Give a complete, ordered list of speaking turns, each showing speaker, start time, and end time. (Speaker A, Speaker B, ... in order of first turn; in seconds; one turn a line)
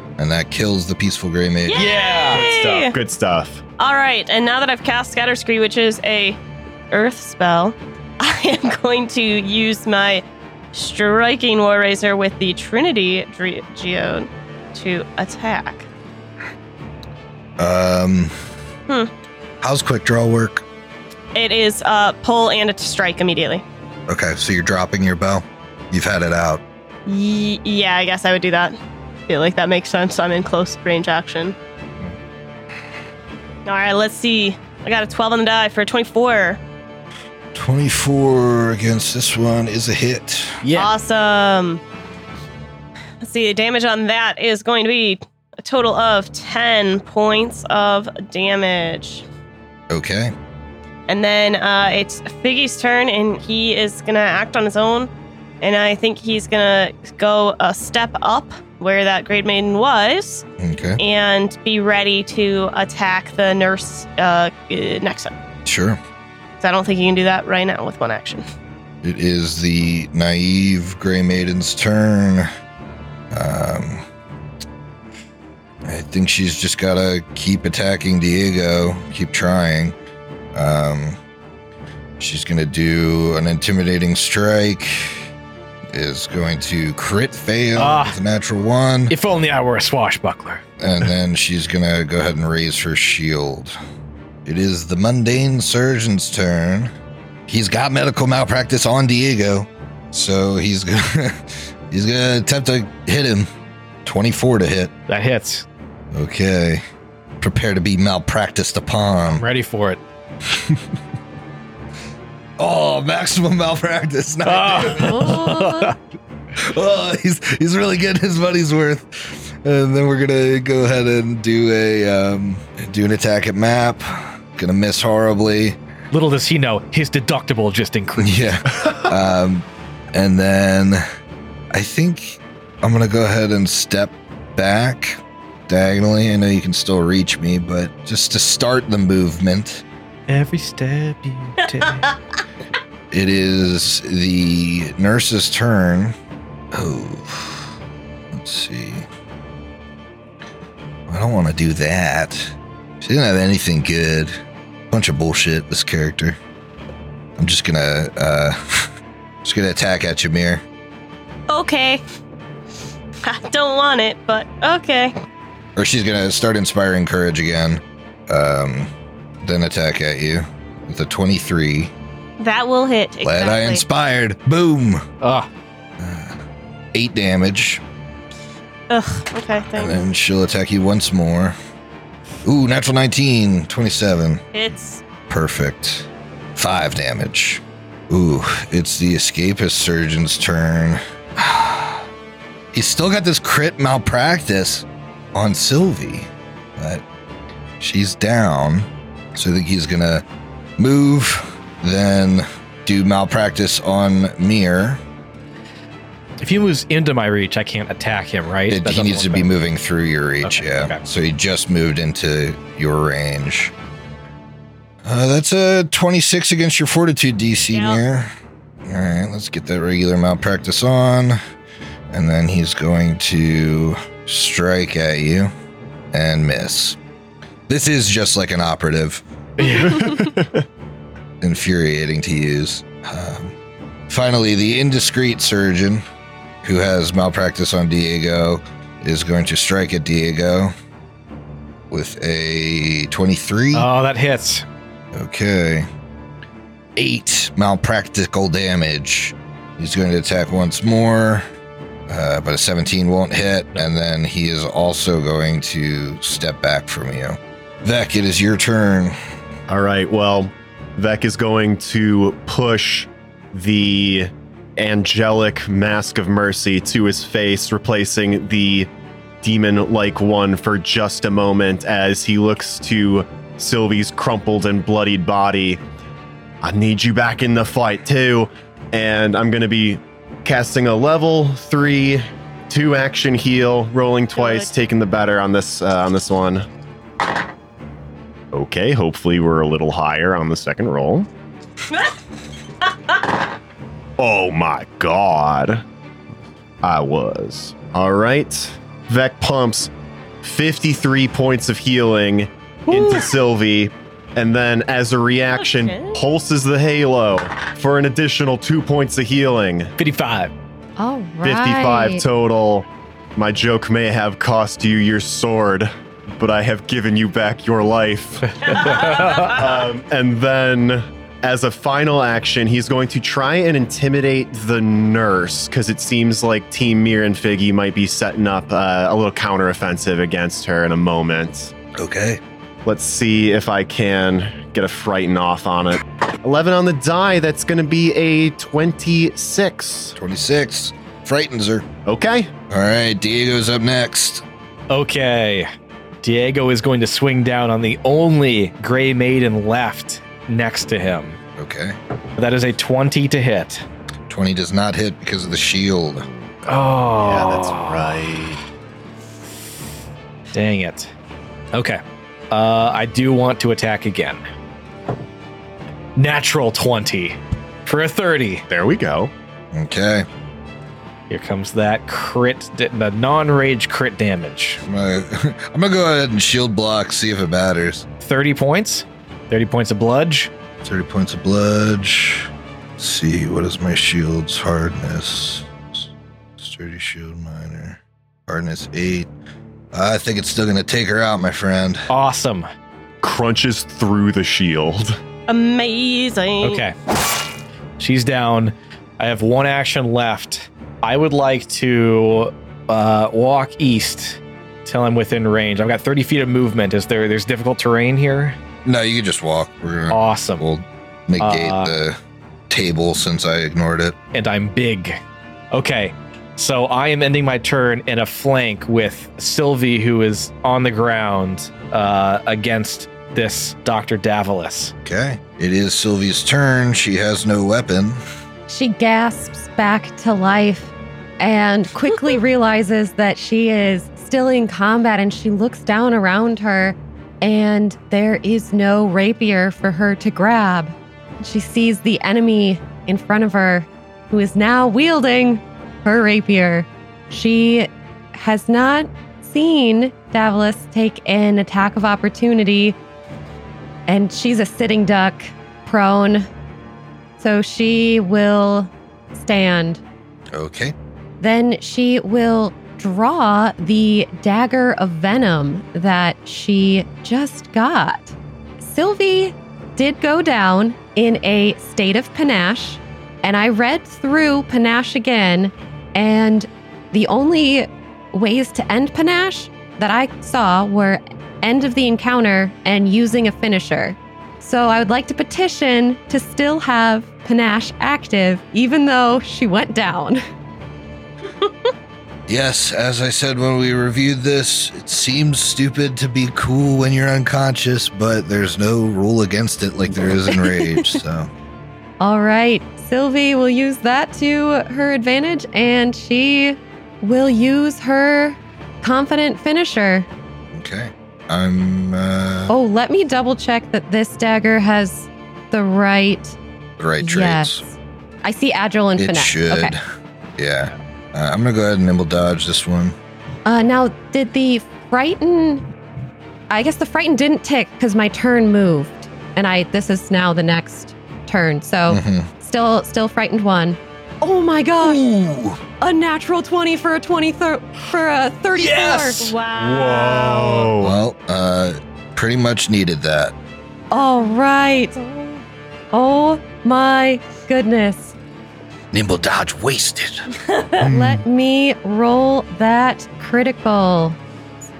Speaker A: 0.2-1.9
Speaker B: 1.7-2.9
Speaker C: 1.7-2.9
Speaker D: 2.9-3.6
Speaker B: 3.8-6.4
Speaker B: 6.9-15.9
Speaker A: 17.6-18.3
Speaker A: 19.6-20.6
Speaker B: 21.3-23.6
Speaker A: 24.1-26.6
Speaker B: 27.1-28.8
Speaker B: 29.3-31.6
Speaker B: 33.6-36.6
Speaker A: 37.5-40.6
Speaker C: 40.6-40.9
Speaker B: 40.7-41.8
Speaker B: 43.2-49.2
Speaker A: 49.9-50.3
Speaker B: 51.1-55.1
Speaker B: 55.6-60.4
Speaker A: 60.6-61.0
Speaker B: 61.0-65.3
Speaker A: 65.6-66.0
Speaker B: 66.6-68.4
Speaker A: 69.0-72.5
Speaker A: 73.3-74.0
Speaker A: 75.8-79.9
Speaker A: 80.5-81.2
Speaker A: 82.2-85.3
Speaker A: 85.9-89.1
Speaker C: 87.8-88.2
Speaker C: 89.1-90.6
Speaker A: 90.8-93.7
Speaker A: 94.4-96.9
Speaker A: 97.5-103.5
Speaker A: 104.0-104.9
Speaker C: 105.1-105.7
Speaker A: 106.1-106.8
Speaker A: 107.4-109.4
Speaker C: 109.3-110.0
Speaker A: 110.5-110.8
Speaker A: 112.6-115.5
Speaker C: 114.4-115.9
Speaker E: 115.0-115.9
Speaker A: 116.5-125.8
Speaker C: 126.1-128.6
Speaker A: 128.2-131.0
Speaker A: 131.7-139.8
Speaker C: 140.3-142.1
Speaker A: 143.1-146.1
Speaker A: 146.7-147.7
Speaker A: 148.3-149.1
Speaker A: 151.1-154.3
Speaker A: 154.9-156.4
Speaker A: 157.4-158.9
Speaker A: 159.4-160.6
Speaker B: 161.5-162.0
Speaker B: 163.2-165.1
Speaker A: 165.8-168.9
Speaker A: 169.4-171.9
Speaker B: 172.4-173.8
Speaker A: 173.2-175.0
Speaker C: 175.2-175.5
Speaker A: 176.0-176.4
Speaker A: 176.9-177.8
Speaker B: 178.9-180.1
Speaker A: 179.7-181.6
Speaker A: 182.4-184.4
Speaker B: 184.5-185.0
Speaker A: 185.3-192.1
Speaker A: 192.7-197.0
Speaker A: 197.8-200.2
Speaker A: 200.8-205.0
Speaker C: 206.4-209.5
Speaker A: 208.7-213.7
Speaker C: 210.4-211.0
Speaker A: 215.0-218.3
Speaker B: 217.7-218.0
Speaker A: 218.8-221.4
Speaker A: 222.1-225.5
Speaker A: 226.1-227.0
Speaker A: 227.7-229.2
Speaker C: 229.6-230.1
Speaker D: 229.8-230.6
Speaker A: 231.4-233.5
Speaker A: 234.1-236.0
Speaker A: 236.6-240.7
Speaker A: 241.9-243.9
Speaker C: 243.7-244.6
Speaker A: 245.1-245.9
Speaker A: 246.9-251.4
Speaker A: 252.1-259.1
Speaker D: 259.7-268.9
Speaker D: 269.4-275.8
Speaker D: 276.6-286.7
Speaker B: 284.4-284.7
Speaker D: 288.5-291.3
Speaker D: 294.2-295.8
Speaker D: 296.8-299.9
Speaker D: 300.4-309.9
Speaker C: 302.9-303.3
Speaker B: 305.5-306.2
Speaker C: 310.0-310.5
Speaker E: 311.0-312.2
Speaker D: 311.4-312.9
Speaker D: 313.4-331.7
Speaker C: 318.6-319.6
Speaker A: 331.9-332.4
Speaker D: 332.8-340.1
Speaker A: 340.1-341.9
Speaker D: 342.1-342.5
Speaker A: 342.7-344.4
Speaker C: 344.9-345.7
Speaker C: 346.2-351.4
Speaker A: 351.6-352.0
Speaker C: 352.4-353.8
Speaker A: 354.3-356.2
Speaker C: 356.6-358.4
Speaker D: 357.1-358.6
Speaker C: 360.5-361.1
Speaker C: 361.7-364.4
Speaker C: 366.1-368.6
Speaker D: 368.7-369.3
Speaker A: 369.7-370.2
Speaker C: 371.3-374.8
Speaker A: 374.8-378.1
Speaker C: 378.2-380.5
Speaker A: 380.8-386.1
Speaker A: 386.6-389.3
Speaker A: 389.9-392.1
Speaker C: 392.1-392.7
Speaker D: 393.2-395.2
Speaker B: 395.5-396.8
Speaker C: 396.6-396.9
Speaker C: 398.0-408.6
Speaker A: 408.8-412.2
Speaker C: 410.1-410.6
Speaker C: 411.4-411.9
Speaker A: 412.7-414.1
Speaker C: 414.3-415.2
Speaker C: 415.7-424.9
Speaker A: 425.0-428.2
Speaker E: 428.7-452.9
Speaker E: 454.1-456.5
Speaker E: 457.4-460.0
Speaker A: 460.5-460.9
Speaker E: 461.4-490.4
Speaker A: 492.5-501.5
Speaker B: 500.6-501.1
Speaker E: 502.2-510.3
Speaker A: 510.7-512.7
Speaker E: 512.7-516.5
Speaker A: 517.0-517.8
Speaker E: 517.2-519.9
Speaker A: 519.2-520.0
Speaker A: 520.6-523.1
Speaker E: 523.6-525.9
Speaker E: 526.7-535.2
Speaker A: 532.1-532.5
Speaker A: 535.0-535.8
Speaker E: 536.0-539.5
Speaker C: 538.8-539.5
Speaker B: 539.4-540.9
Speaker D: 539.8-541.1
Speaker A: 541.0-543.5
Speaker E: 544.1-545.2
Speaker E: 546.1-548.3
Speaker A: 549.1-550.4
Speaker E: 551.0-554.4
Speaker D: 551.0-551.4